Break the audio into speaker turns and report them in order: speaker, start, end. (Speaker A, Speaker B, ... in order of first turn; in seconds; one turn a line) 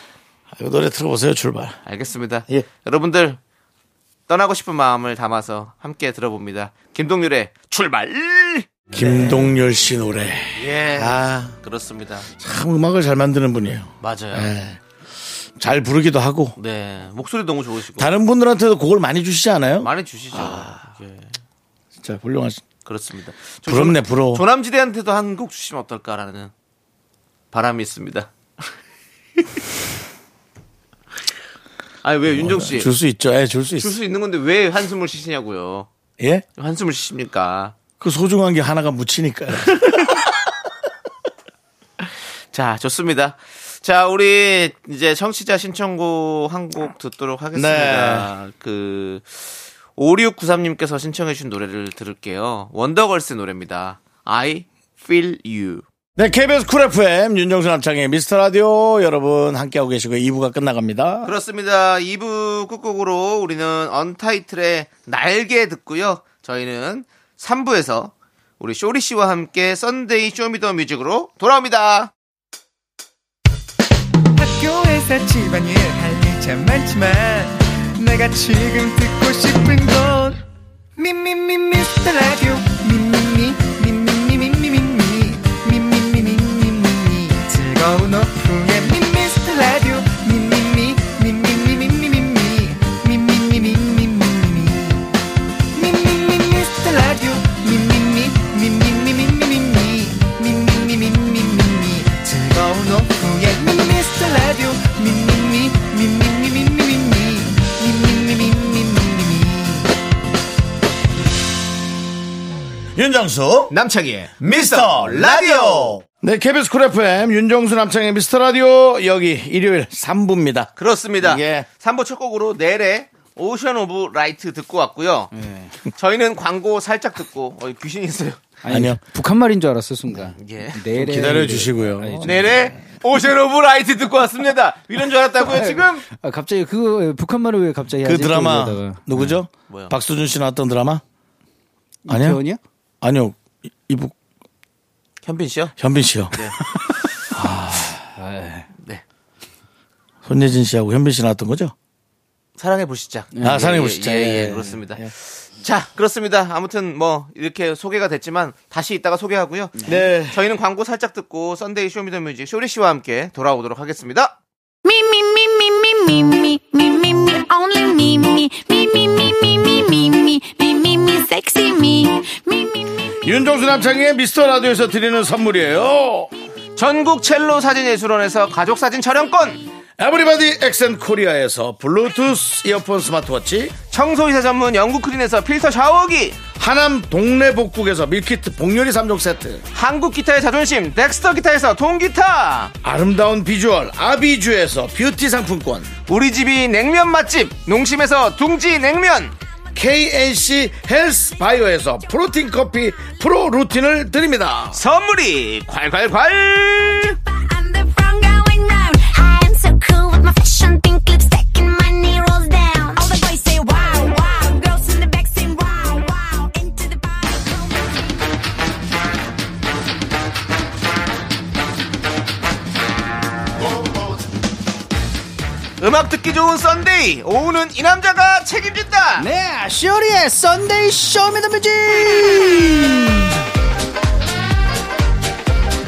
Speaker A: 0.5-1.8
Speaker B: 1.9-3.4
Speaker B: 4.3-9.5
Speaker A: 8.9-11.6
Speaker B: 10.6-12.3
Speaker A: 12.3-14.8
Speaker B: 14.0-14.5
Speaker A: 15.6-16.6
Speaker B: 16.6-18.1
Speaker A: 17.9-20.8
Speaker B: 19.8-21.3
Speaker A: 22.0-22.6
Speaker B: 22.8-26.5
Speaker A: 23.6-24.4
Speaker B: 27.5-28.3
Speaker B: 32.0-32.9
Speaker A: 32.3-34.0
Speaker B: 33.8-35.9
Speaker A: 36.2-36.4
Speaker B: 36.6-37.7
Speaker A: 38.0-40.2
Speaker B: 39.8-40.2
Speaker B: 42.0-55.8
Speaker A: 47.5-48.3
Speaker A: 56.1-61.3
Speaker B: 61.2-72.1
Speaker C: 74.4-80.4
Speaker C: 81.0-95.1
Speaker C: 95.7-109.9
Speaker A: 112.9-113.7
Speaker B: 113.7-116.0
Speaker A: 114.4-121.7
Speaker B: 120.8-125.3
Speaker D: 125.3-125.7
Speaker B: 125.8-128.4
Speaker D: 128.6-132.7
Speaker A: 128.7-129.0
Speaker B: 130.3-130.8
Speaker A: 130.9-132.7
Speaker B: 132.2-136.1
Speaker D: 135.4-139.4
Speaker A: 138.0-141.0
Speaker B: 139.7-139.9
Speaker D: 142.1-142.6
Speaker A: 142.1-142.4
Speaker A: 143.0-144.1
Speaker B: 145.2-145.7
Speaker A: 145.8-146.4
Speaker D: 147.3-148.7
Speaker A: 150.2-151.7
Speaker B: 152.6-164.4
Speaker D: 153.3-153.6
Speaker A: 153.4-155.1
Speaker D: 159.8-160.0
Speaker A: 159.8-160.4
Speaker E: 164.8-172.9
Speaker A: 173.2-176.3
Speaker B: 176.8-179.6
Speaker A: 180.0-183.7
Speaker B: 183.9-186.4
Speaker A: 186.6-189.6
Speaker B: 189.7-192.7
Speaker A: 192.8-195.9
Speaker B: 196.1-199.3
Speaker A: 199.7-204.8
Speaker B: 204.7-207.2
Speaker E: 206.8-218.2
Speaker B: 225.8-229.3
Speaker D: 229.2-233.4